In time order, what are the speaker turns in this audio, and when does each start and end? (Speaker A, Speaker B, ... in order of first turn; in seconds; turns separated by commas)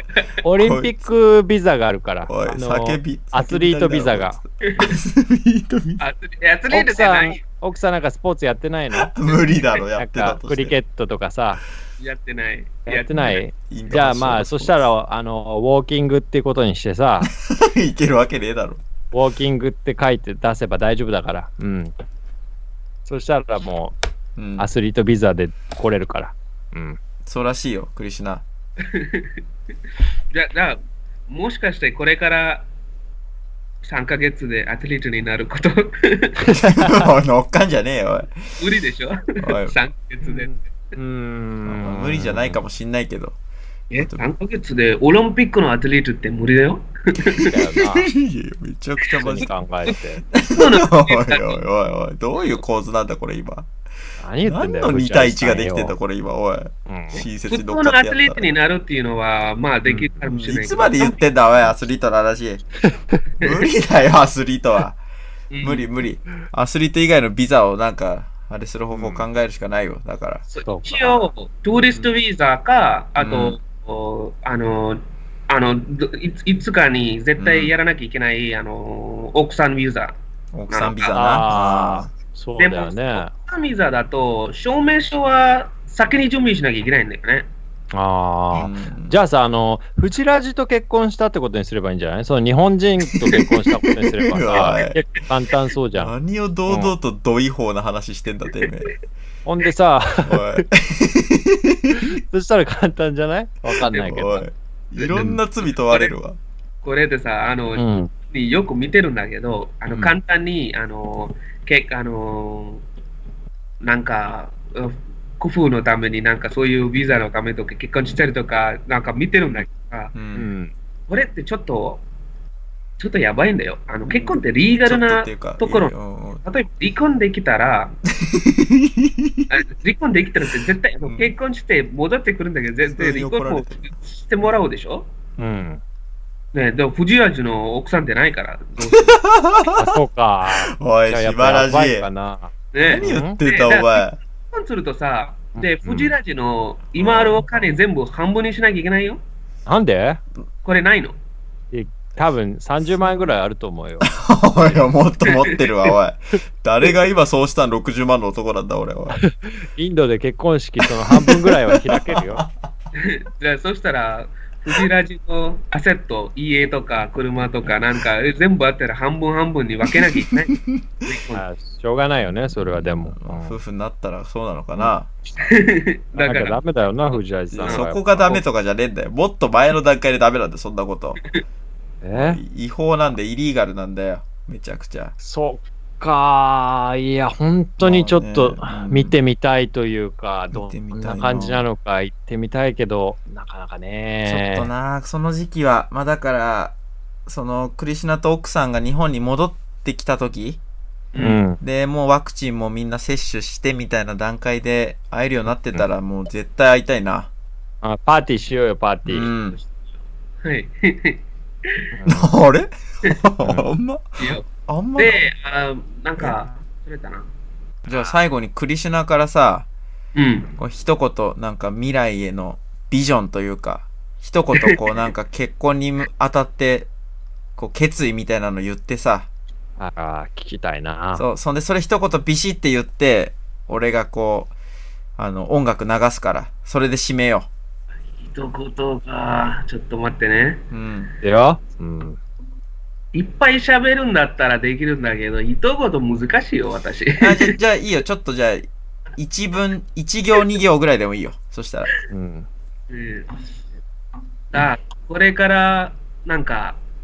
Speaker A: 0.4-4.4, Speaker B: 0.6-1.1, Speaker B: 2.2-6.0, Speaker C: 4.6-5.0, Speaker C: 6.0-7.4, Speaker A: 6.7-9.1, Speaker B: 8.9-10.8, Speaker A: 9.9-11.6, Speaker C: 12.0-13.4, Speaker A: 12.8-17.3, Speaker B: 13.7-14.8, Speaker B: 17.4-18.8, Speaker A: 19.1-21.9, Speaker A: 23.1-23.9, Speaker B: 24.4-24.7, Speaker A: 24.6-27.0, Speaker B: 27.2-28.4, Speaker C: 28.8-29.4, Speaker C: 30.3-32.7, Speaker C: 33.8-36.5, Speaker A: 36.5-37.0, Speaker B: 36.5-38.6, Speaker C: 38.6-40.7, Speaker B: 39.4-39.7, Speaker A: 40.2-42.6, Speaker B: 41.6-43.4, Speaker C: 43.9-47.5, Speaker B: 44.0-44.2, Speaker A: 47.3-48.1, Speaker B: 47.8-49.5, Speaker C: 49.2-49.9, Speaker A: 49.2-50.2, Speaker B: 50.3-53.7, Speaker C: 50.5-51.6, Speaker A: 54.2-56.0, Speaker B: 54.4-58.5, Speaker A: 56.9-57.2, Speaker C: 57.5-61.2, Speaker A: 59.9-60.2, Speaker B: 60.2-62.6, Speaker B: 63.4-65.0, Speaker C: 63.4-63.6, Speaker C: 65.5-65.9, Speaker B: 65.6-70.4, Speaker A: 68.9-69.2, Speaker C: 70.5-80.1, Speaker A: 70.6-71.3, Speaker B: 73.2-73.6, Speaker B: 77.4-77.7, Speaker B: 80.5-82.1, Speaker C: 80.7-81.4, Speaker A: 81.1-83.3, Speaker C: 82.6-87.5, Speaker A: 87.9-96.1, Speaker B: 88.5-89.2, Speaker B: 93.2-95.0, Speaker B: 95.9-99.0, Speaker A: 96.7-96.9, Speaker A: 99.4-100.6, Speaker B: 100.2-102.1, Speaker A: 102.0-104.5, Speaker B: 103.9-106.4, Speaker C: 105.0-106.1, Speaker C: 106.8-112.8, Speaker A: 107.7-108.1, Speaker C: 113.8-120.1, Speaker B: 120.1-120.5, Speaker A: 120.3-120.7, Speaker C: 121.1-122.0, Speaker C: 123.0-128.0, Speaker B: 124.0-126.4, Speaker B: 128.2-129.5, Speaker C: 129.5-135.1, Speaker B: 131.0-131.3, Speaker B: 132.9-133.9, Speaker A: 135.4-135.8, Speaker C: 136.5-139.2, Speaker B: 138.8-142.1, Speaker A: 139.7-143.4, Speaker C: 142.7-149.2, Speaker B: 142.8-144.2, Speaker A: 145.6-146.2, Speaker B: 147.0-147.4, Speaker A: 149.7-150.2, Speaker C: 150.6-151.2, Speaker A: 151.7-154.8, Speaker B: 154.0-159.2, Speaker C: 155.2-155.9, Speaker A: 159.1-162.4, Speaker B: 160.9-162.5, Speaker C: 162.9-171.4, Speaker B: 170.1-171.1, Speaker A: 171.3-173.6, Speaker B: 172.5-175.1, Speaker C: 175.4-176.6, Speaker A: 176.2-178.4, Speaker B: 177.5-181.2, Speaker A: 182.0-182.4, Speaker B: 182.1-185.1, Speaker A: 185.2-194.7, Speaker B: 187.8-189.2, Speaker B: 190.5-191.6, Speaker B: 194.2-200.6, Speaker C: 201.1-201.4, Speaker A: 201.2-201.6, Speaker B: 201.5-207.3, Speaker A: 207.8-209.3, Speaker B: 209.1-209.6, Speaker C: 210.4-211.8, Speaker A: 211.9-212.3, Speaker B: 212.1-215.3, Speaker A: 213.4-213.7, Speaker C: 214.2-214.4, Speaker C: 214.9-217.3, Speaker A: 217.9-218.1, Speaker B: 217.9-219.7, Speaker C: 220.2-220.5, Speaker B: 220.6-226.9, Speaker B: 227.6-229.3, Speaker A: 229.8-231.2, Speaker B: 231.1-234.5, Speaker B: 235.2-237.5, Speaker C: 238.2-240.6, Speaker B: 240.7-241.1, Speaker A: 241.2-242.2, Speaker C: 243.1-247.6, Speaker B: 247.2-251.9, Speaker A: 252.1-252.5, Speaker C: 252.9-253.4, Speaker C: 254.5-256.8